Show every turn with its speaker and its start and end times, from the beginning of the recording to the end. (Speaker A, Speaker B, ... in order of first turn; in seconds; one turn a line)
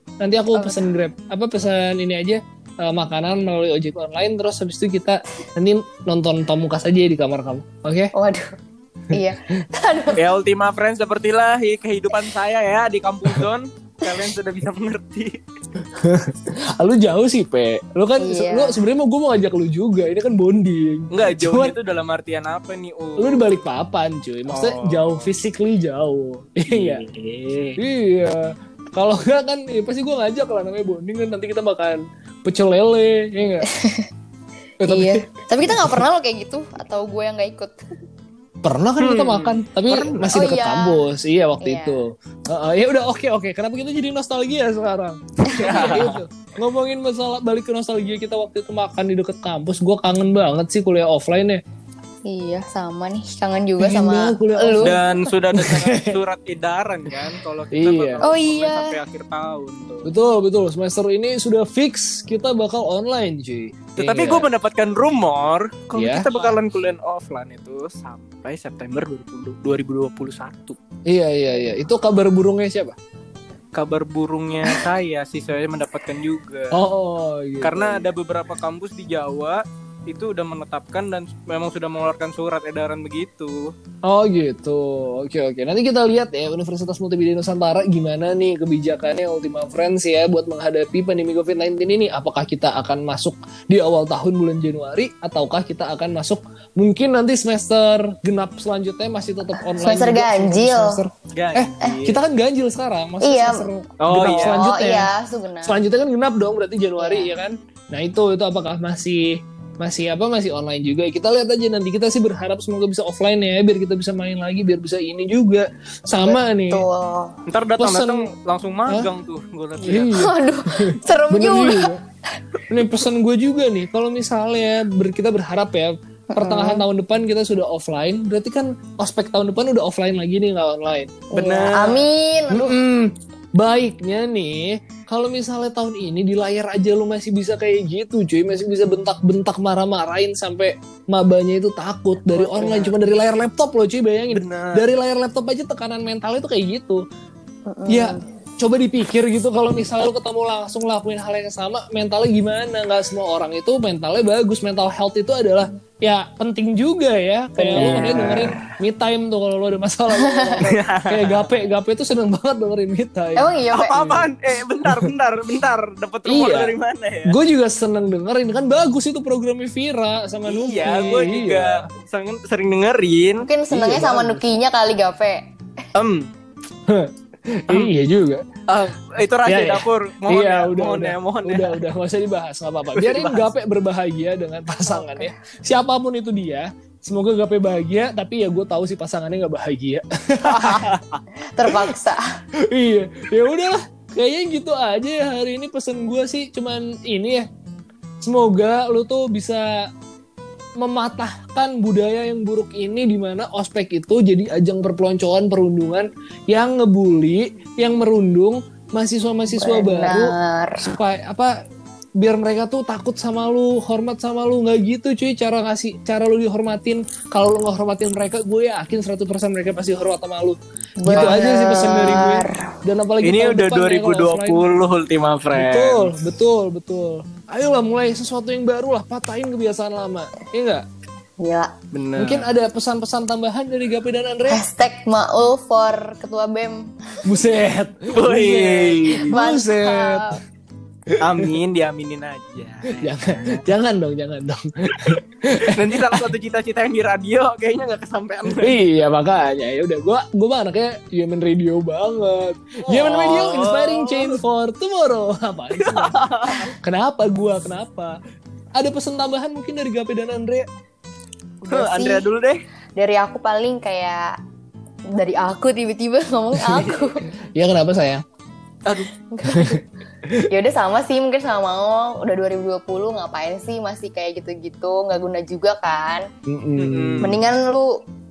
Speaker A: 0.2-8.1
Speaker B: 0.5-0.9
Speaker B: 8.1-8.5
Speaker B: 9.1-10.2
Speaker C: 10.1-15.4
Speaker A: 15.8-21.7
Speaker B: 18.2-18.8
Speaker C: 21.1-23.6
Speaker A: 23.2-27.0
Speaker C: 24.5-25.3
Speaker C: 26.7-27.8
Speaker A: 27.8-33.7
Speaker B: 33.7-34.1
Speaker A: 34.8-36.0
Speaker B: 34.8-37.8
Speaker A: 38.6-51.6
Speaker C: 39.0-40.3
Speaker B: 40.3-41.1
Speaker B: 41.6-42.0
Speaker B: 45.5-45.8
Speaker C: 45.5-46.2
Speaker B: 52.2-55.0
Speaker A: 53.8-55.0
Speaker C: 54.8-60.1
Speaker A: 55.5-56.2
Speaker A: 57.7-58.2
Speaker B: 58.2-59.0
Speaker A: 60.0-64.5
Speaker C: 64.0-70.8
Speaker A: 65.9-66.5
Speaker A: 71.1-73.0
Speaker C: 73.7-76.8
Speaker A: 76.7-78.1
Speaker C: 77.6-83.7
Speaker A: 84.0-105.1
Speaker B: 99.7-101.0
Speaker C: 101.3-102.2
Speaker B: 103.2-105.8
Speaker C: 104.0-104.6
Speaker A: 105.6-116.8
Speaker B: 107.0-107.3
Speaker B: 116.2-117.4
Speaker C: 117.5-120.1
Speaker A: 117.8-118.3
Speaker A: 119.8-122.0
Speaker B: 120.1-122.0
Speaker A: 122.7-131.2
Speaker B: 126.3-126.8
Speaker B: 131.3-132.8
Speaker C: 131.3-132.0
Speaker A: 132.5-147.0
Speaker C: 142.3-142.9
Speaker C: 144.3-144.8
Speaker B: 147.7-148.2
Speaker A: 147.9-164.2
Speaker B: 157.6-158.5
Speaker C: 157.8-158.8
Speaker B: 160.1-160.6
Speaker C: 160.6-161.5
Speaker B: 163.3-164.1
Speaker C: 163.7-167.4
Speaker A: 164.8-165.1
Speaker A: 166.2-171.9
Speaker C: 170.5-173.5
Speaker B: 173.4-175.5
Speaker A: 173.7-174.4
Speaker C: 175.9-176.3
Speaker A: 176.9-178.4
Speaker C: 178.7-181.8
Speaker A: 179.4-190.9
Speaker C: 182.9-183.5
Speaker B: 184.9-185.3
Speaker C: 190.4-191.2
Speaker B: 191.4-192.2
Speaker A: 191.7-191.9
Speaker A: 192.6-197.5
Speaker A: 198.2-199.9
Speaker A: 200.8-211.5
Speaker B: 209.5-210.8
Speaker A: 212.2-224.7
Speaker B: 221.0-222.7
Speaker C: 221.1-221.4
Speaker C: 223.2-226.1
Speaker A: 225.5-230.8
Speaker B: 231.4-231.7
Speaker C: 231.9-232.5
Speaker A: 232.2-234.6
Speaker B: 234.5-236.9
Speaker A: 237.2-240.4
Speaker C: 238.1-239.3
Speaker B: 239.3-240.4
Speaker A: 241.1-241.6
Speaker C: 241.2-243.6
Speaker A: 242.9-246.3
Speaker C: 245.0-248.8
Speaker A: 248.6-258.2
Speaker C: 252.8-254.4
Speaker C: 255.8-256.7
Speaker A: 258.8-260.7
Speaker B: 261.6-262.3
Speaker C: 261.7-262.6
Speaker B: 262.9-264.4
Speaker B: 265.1-267.3
Speaker A: 267.5-268.2
Speaker C: 268.8-269.1
Speaker B: 269.3-269.8
Speaker A: 269.5-270.5
Speaker B: 270.5-276.3
Speaker A: 276.4-277.4
Speaker C: 276.8-277.3
Speaker B: 277.2-278.0